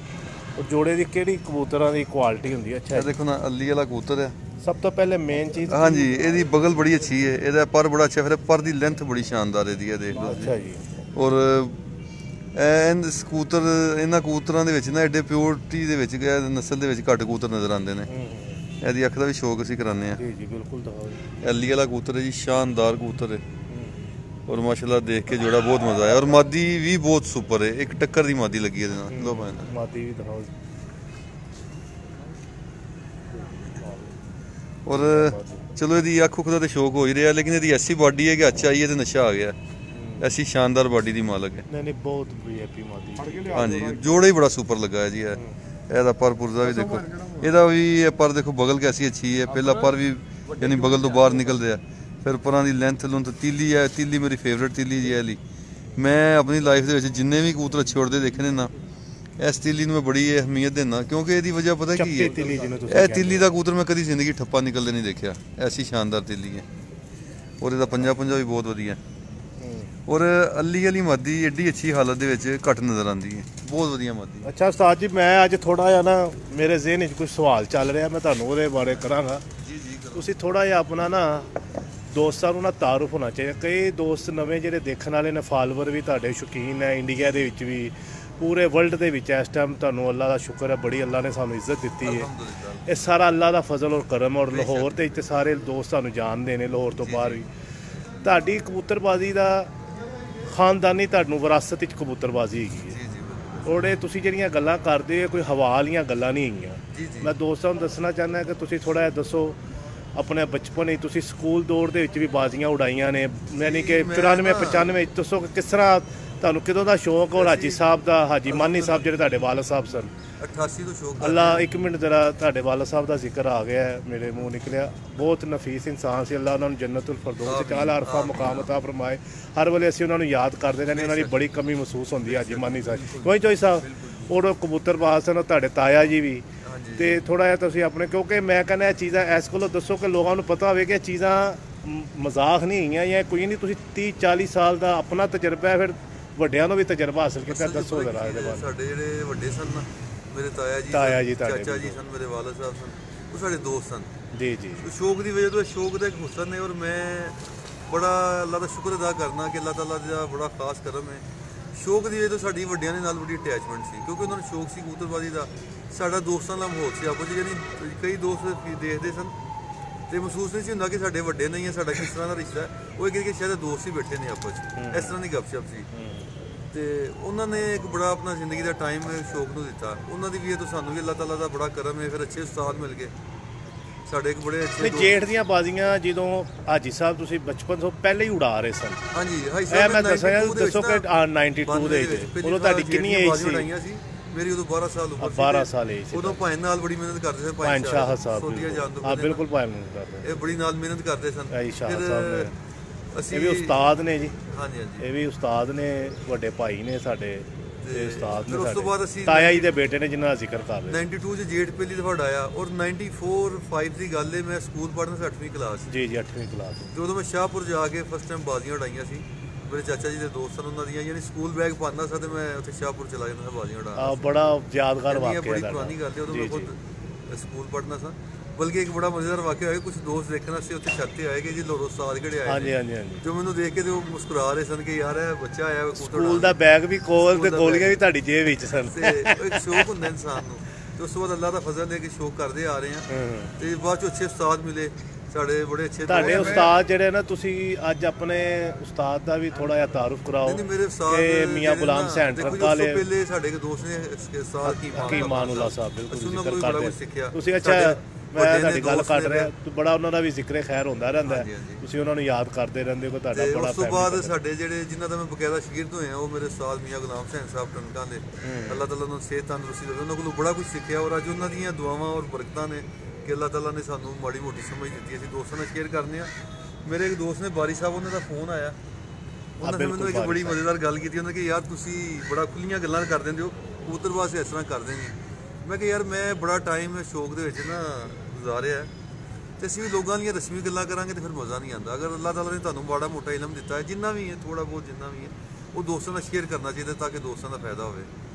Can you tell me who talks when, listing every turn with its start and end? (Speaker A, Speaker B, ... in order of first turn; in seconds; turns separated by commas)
Speaker A: 0.6-3.1, Speaker B: 2.9-4.4, Speaker A: 4.6-6.3, Speaker B: 5.7-10.6, Speaker A: 10.2-10.9, Speaker B: 11.2-11.8, Speaker B: 12.6-18.1, Speaker A: 18.1-18.6, Speaker B: 18.8-20.2, Speaker A: 20.2-21.3, Speaker B: 21.4-23.4, Speaker A: 23.7-24.1, Speaker B: 24.5-29.7, Speaker A: 29.1-30.5, Speaker B: 34.9-39.6, Speaker A: 34.9-35.7, Speaker A: 40.0-40.3, Speaker B: 40.2-41.7, Speaker A: 41.7-43.6, Speaker B: 43.5-55.4, Speaker B: 56.0-58.7, Speaker B: 59.4-66.7, Speaker A: 62.0-63.5, Speaker B: 67.6-69.0, Speaker A: 69.6-69.9, Speaker B: 70.1-74.5, Speaker A: 74.5-79.4, Speaker B: 79.6-80.3, Speaker A: 80.2-81.5, Speaker A: 82.1-92.3, Speaker B: 92.0-92.9, Speaker A: 92.9-97.5, Speaker B: 94.5-95.1, Speaker B: 97.0-97.4, Speaker A: 98.2-99.7, Speaker A: 100.5-103.0, Speaker B: 102.9-103.9, Speaker A: 103.7-109.6, Speaker B: 106.9-107.3, Speaker A: 110.2-120.1, Speaker B: 113.5-114.9, Speaker B: 117.3-117.8, Speaker B: 118.5-119.4, Speaker B: 120.4-121.7, Speaker A: 121.2-136.4, Speaker B: 127.4-128.7, Speaker B: 130.9-131.5, Speaker B: 132.2-133.4, Speaker B: 136.6-137.2, Speaker A: 137.0-148.7, Speaker B: 147.5-154.1, Speaker A: 150.9-152.0, Speaker A: 154.3-154.9, Speaker B: 154.8-169.3, Speaker B: 170.1-175.9, Speaker A: 174.8-175.2, Speaker A: 175.9-176.3, Speaker B: 176.7-183.1, Speaker B: 184.1-185.2, Speaker A: 184.8-189.0, Speaker B: 189.1-191.1, Speaker A: 189.7-193.7, Speaker B: 191.6-199.4, Speaker A: 195.2-196.4, Speaker A: 197.6-200.3, Speaker B: 200.2-202.5, Speaker A: 201.5-202.5, Speaker B: 203.1-203.9, Speaker A: 203.3-204.4, Speaker B: 204.4-205.1, Speaker A: 205.0-211.0, Speaker B: 207.8-209.7, Speaker B: 210.9-215.9, Speaker A: 215.9-216.9, Speaker B: 216.9-224.3, Speaker A: 224.0-226.7, Speaker B: 225.1-236.6, Speaker A: 232.5-233.2, Speaker A: 236.0-239.8, Speaker B: 237.2-238.0, Speaker B: 238.8-246.7, Speaker A: 243.1-243.5, Speaker A: 246.1-253.0, Speaker B: 250.4-259.5, Speaker A: 254.6-264.3, Speaker B: 261.2-261.8, Speaker B: 263.3-276.3, Speaker A: 268.4-268.9, Speaker B: 276.9-278.8, Speaker B: 279.6-288.9, Speaker A: 279.6-280.6, Speaker B: 289.6-298.1